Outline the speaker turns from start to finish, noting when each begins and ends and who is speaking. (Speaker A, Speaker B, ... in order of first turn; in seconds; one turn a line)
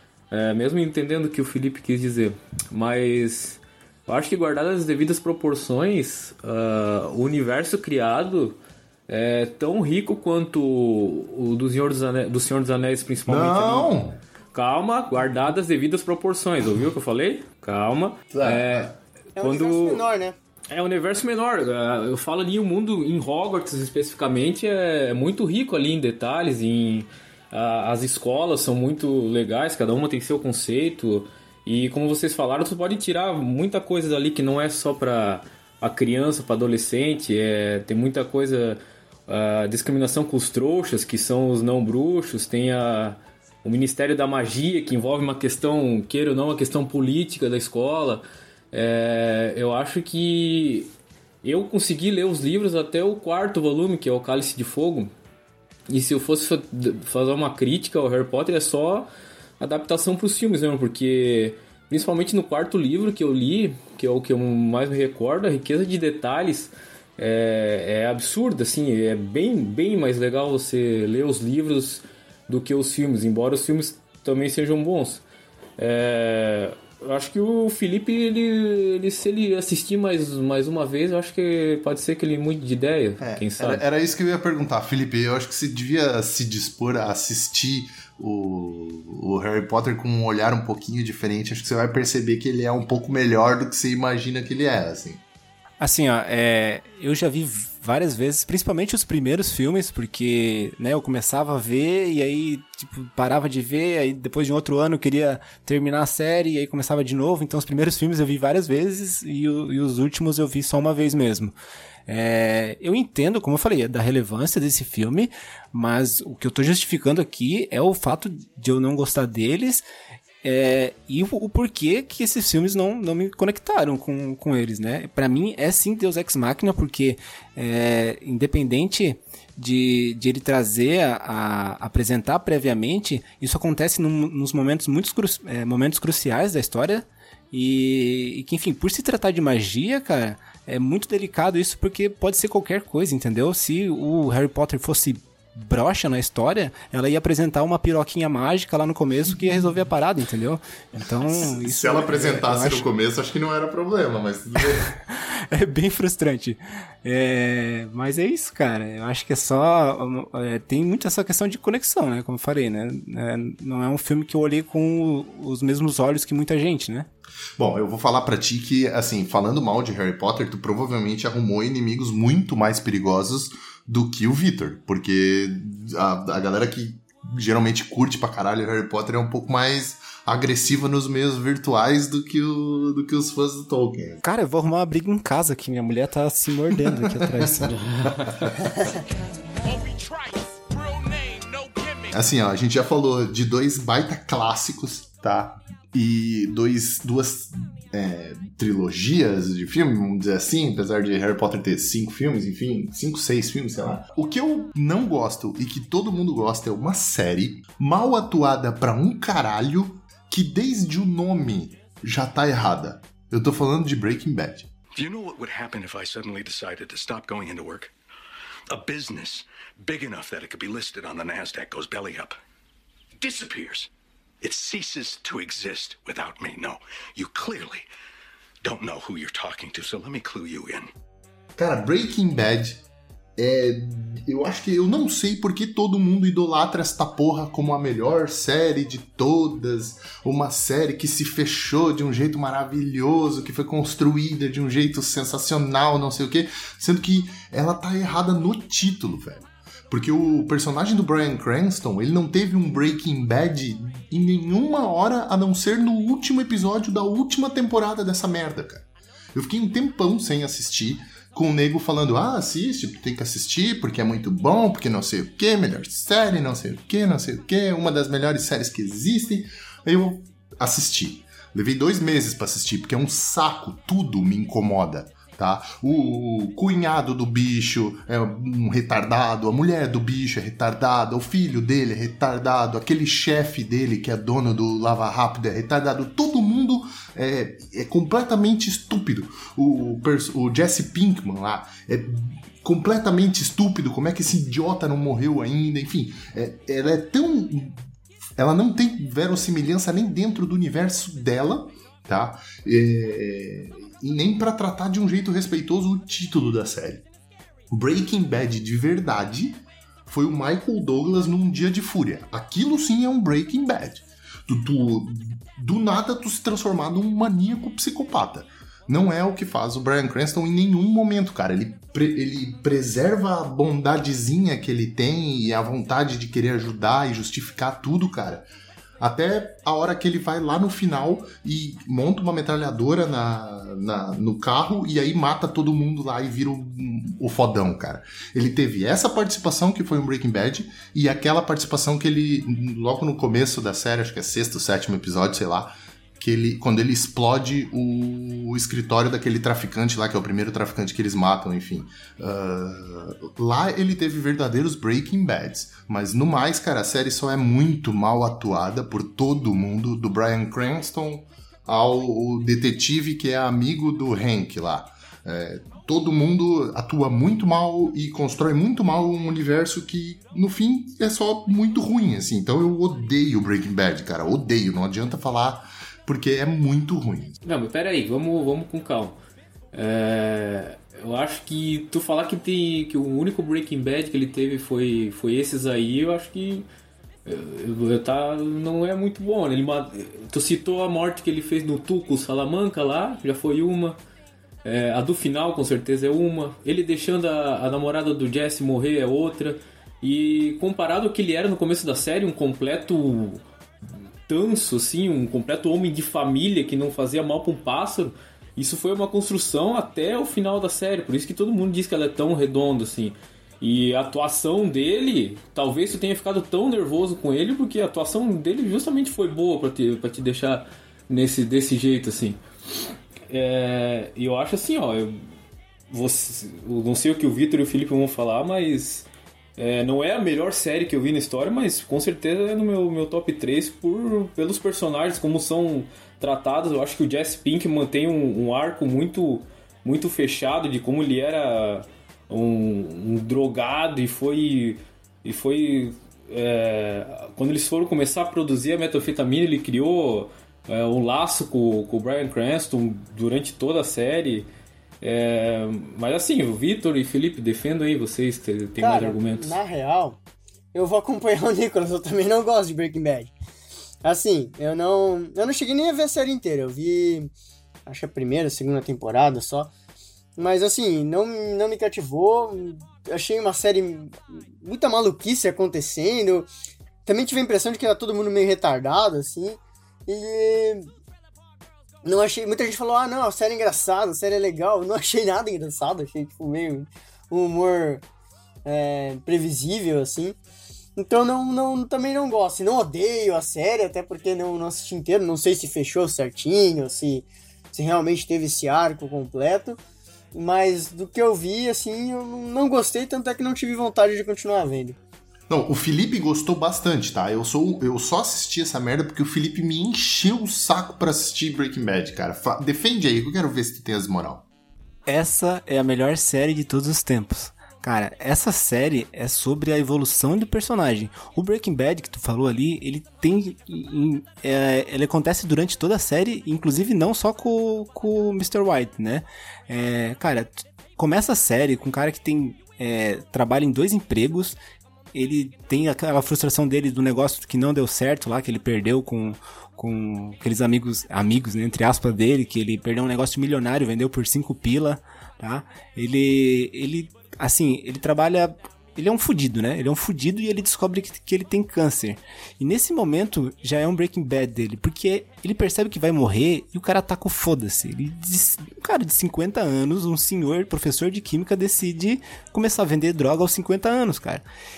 Speaker A: 0.3-8.6
Speaker A: 9.1-13.9
Speaker B: 13.3-14.2
Speaker A: 14.5-20.0
Speaker B: 18.3-18.9
Speaker C: 19.4-20.4
Speaker A: 20.7-50.9
Speaker A: 51.4-55.1
Speaker A: 55.9-59.1
Speaker A: 59.6-75.2
Speaker A: 75.8-83.8
Speaker B: 83.2-95.2
Speaker D: 95.8-111.5
Speaker D: 112.1-119.8
Speaker D: 120.4-152.8
Speaker B: 151.3-154.9
Speaker D: 155.0-167.1
Speaker B: 167.6-184.2
Speaker D: 184.2-188.1
Speaker B: 186.9-187.5
Speaker E: 189.7-192.1
Speaker B: 192.1-214.7
Speaker E: 214.9-217.9
Speaker E: 218.7-222.3
Speaker E: 223.2-223.9
Speaker E: 224.4-227.8
Speaker E: 228.6-230.9
Speaker B: 231.6-232.8
Speaker B: 233.4-297.8
Speaker B: 298.4-307.1
Speaker B: 307.7-328.5
Speaker B: 329.0-377.4
Speaker A: 377.4-379.2
Speaker A: 379.7-386.6
Speaker A: 387.3-394.0
Speaker A: 394.6-403.4
Speaker A: 404.3-422.4
Speaker A: 423.3-425.2
Speaker A: 425.9-454.5
Speaker A: 455.0-459.6
Speaker C: 458.8-460.2
Speaker C: 460.7-463.3
Speaker C: 464.0-467.3
Speaker C: 467.9-469.7
Speaker C: 470.4-476.5
Speaker C: 477.1-480.9
Speaker C: 482.1-488.0
Speaker C: 488.6-490.4
Speaker C: 491.0-499.8
Speaker C: 500.3-505.0
Speaker B: 505.5-514.4
Speaker D: 515.1-534.6
Speaker D: 535.1-564.4